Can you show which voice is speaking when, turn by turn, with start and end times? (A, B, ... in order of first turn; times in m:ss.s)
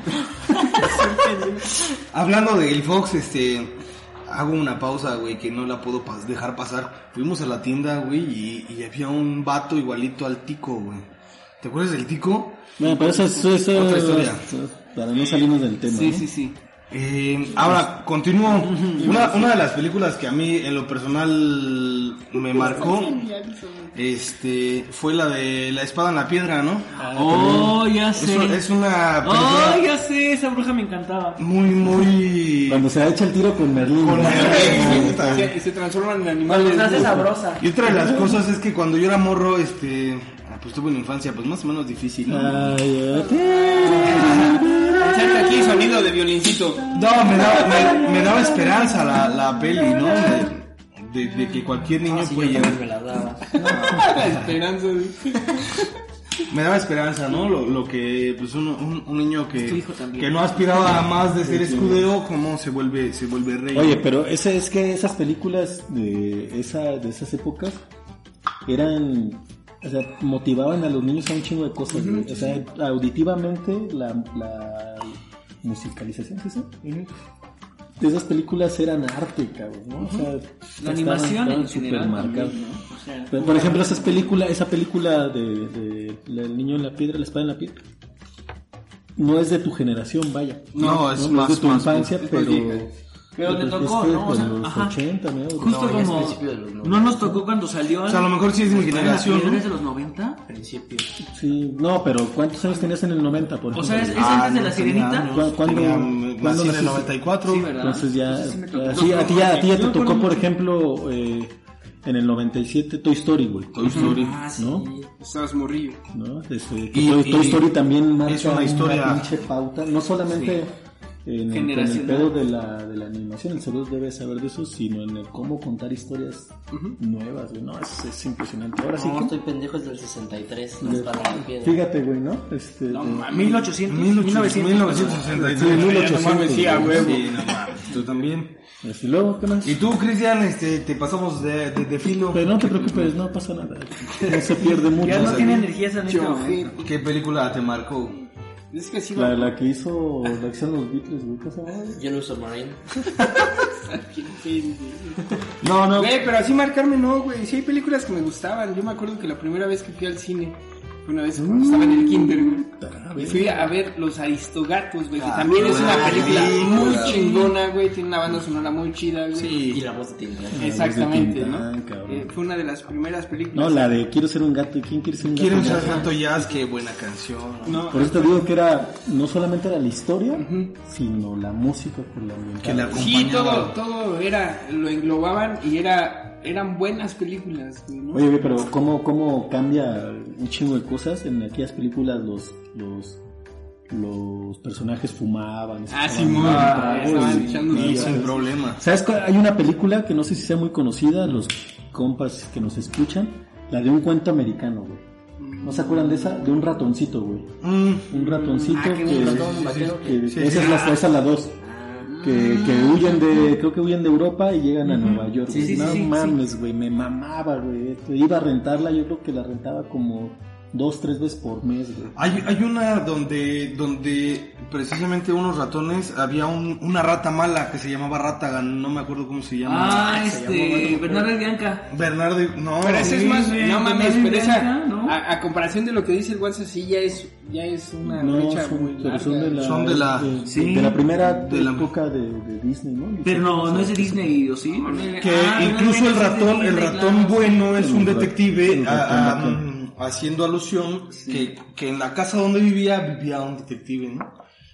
0:00.7-0:01.8 A
0:02.1-0:11.1 B
0:11.6-0:12.7 B
0:12.8-0:16.3 C
0:12.8-0:13.5 D
0:13.6-0:14.5 B
0:15.8-0:16.6 D
0:16.9-0:23.3 B
0:18.6-0:19.3 D
0:19.0-0:19.3 A
0:22.4-0:24.0 A
0:23.9-0:27.6 B
0:27.0-0:27.8 C
0:27.1-0:28.6 D
0:28.1-0:29.8 B
0:29.2-0:31.5 D
0:31.4-0:32.9 B
0:32.7-0:35.5 C
0:34.0-0:35.5 B
0:34.2-0:37.3 A
0:36.5-0:37.6 D
0:37.6-0:42.7 B
0:37.9-0:38.3 C
0:42.3-0:45.3 C
0:43.8-0:44.3 A
0:45.0-0:46.9 A
0:46.9-0:52.8 B
0:52.0-0:53.7 E
0:53.6-0:55.8 A
0:53.7-0:54.4 C
0:53.7-0:54.1 B
0:56.5-1:04.1 B
0:59.6-1:01.0 D
1:01.4-1:02.1 C
1:03.7-1:07.8 C
1:08.7-1:16.8 C
1:11.9-1:12.6 A
1:18.0-1:22.6 C
1:20.8-1:24.4 D
1:23.3-1:27.8 C
1:29.2-1:36.0 C
1:30.8-1:32.3 B
1:32.3-1:32.8 A
1:33.4-1:35.0 D
1:35.6-1:40.4 D
1:35.6-1:37.4 E
1:38.1-1:39.6 B
1:40.5-1:41.1 E
1:41.2-1:44.4 C
1:43.7-1:45.4 D
1:44.1-1:47.7 B
1:45.3-1:47.2 C
1:47.4-1:50.5 D
1:47.7-1:54.9 C
1:49.0-1:49.4 B
1:53.8-1:54.4 B
1:53.9-1:55.1 E
1:55.2-1:56.0 A
1:56.1-2:00.7 C
1:56.9-1:57.7 B
1:58.2-1:59.4 B
2:00.3-2:00.6 D
2:01.2-2:09.4 C
2:01.5-2:02.4 D
2:06.7-2:07.0 A
2:08.9-2:11.8 E
2:10.8-2:13.3 C
2:12.9-2:13.7 A
2:13.3-2:15.4 D
2:13.7-2:18.6 B
2:15.4-2:17.3 C
2:15.4-2:17.8 A
2:18.8-2:19.8 C
2:19.6-2:23.1 B
2:22.3-2:25.6 C
2:25.0-2:26.8 D
2:25.1-2:25.6 B
2:26.0-2:26.8 A
2:26.8-2:28.2 B
2:28.7-2:29.6 A
2:29.1-2:32.0 C
2:32.0-2:32.8 E
2:33.8-2:49.6 A
2:35.6-2:36.2 B
2:41.4-2:43.7 C
2:45.2-2:47.5 B
2:45.7-2:47.2 E
2:49.3-2:49.8 B
2:49.7-2:50.8 E
2:50.5-2:52.4 C
2:50.6-2:54.0 A
2:53.5-2:56.2 C
2:55.2-2:57.9 B
2:57.6-2:58.4 A
2:57.9-3:03.2 C
3:00.4-3:00.7 A
3:02.6-3:03.8 B
3:02.9-3:08.3 A
3:08.1-3:13.2 C
3:13.9-3:25.0 C
3:15.9-3:18.5 A
3:16.4-3:18.8 B
3:16.4-3:17.6 D
3:25.4-3:26.1 A
3:25.6-3:31.6 C
3:27.6-3:28.4 B
3:28.7-3:30.5 E
3:29.0-3:30.9 B
3:31.6-3:32.2 E
3:32.0-3:33.5 D
3:32.2-3:42.3 C
3:34.8-3:36.4 D
3:35.5-3:36.0 E
3:42.2-3:50.2 B
3:49.6-3:51.9 D
3:50.3-3:51.2 E
3:51.9-3:53.3 B
3:52.8-3:59.8 A
3:53.0-3:55.2 D
3:58.0-4:04.5 C
3:59.6-4:00.4 B
4:00.4-4:01.0 D
4:01.2-4:01.9 B
4:03.2-4:07.7 D
4:04.8-4:05.2 A
4:05.2-4:14.3 B
4:07.8-4:09.7 C
4:11.1-4:11.6 D